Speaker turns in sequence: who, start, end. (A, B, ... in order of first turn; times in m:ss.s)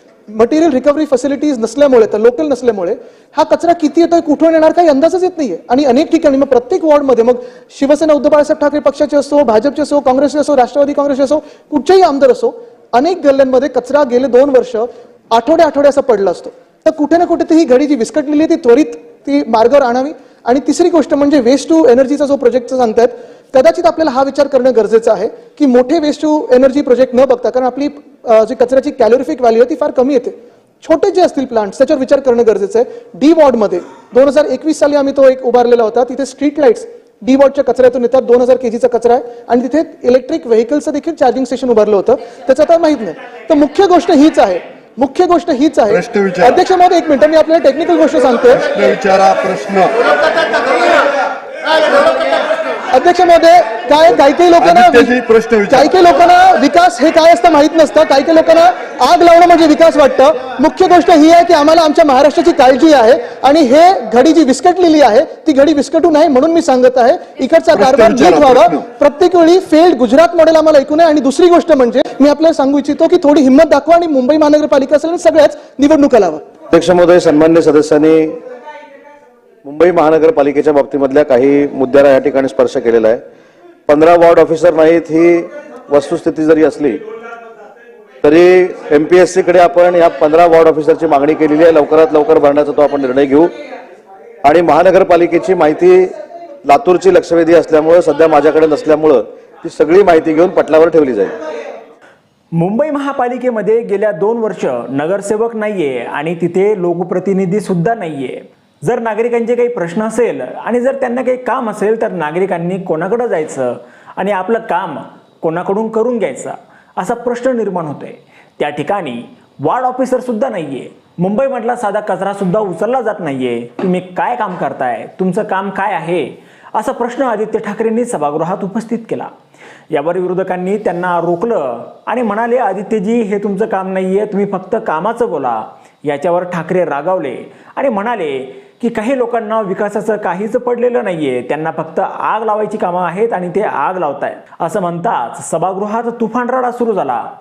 0:00.3-0:48.7 A
0:45.9-0:46.6 B
0:48.6-0:50.1 B
0:52.9-0:55.2 A
0:54.6-0:55.9 B
0:55.7-1:16.4 A
1:07.7-1:08.8 B
1:16.7-1:18.4 C
1:19.6-1:23.2 C
1:23.9-1:27.0 C
1:28.2-1:33.5 C
1:34.4-1:36.1 C
1:36.6-1:41.4 C
1:42.5-2:09.3 D
2:09.9-2:27.2 D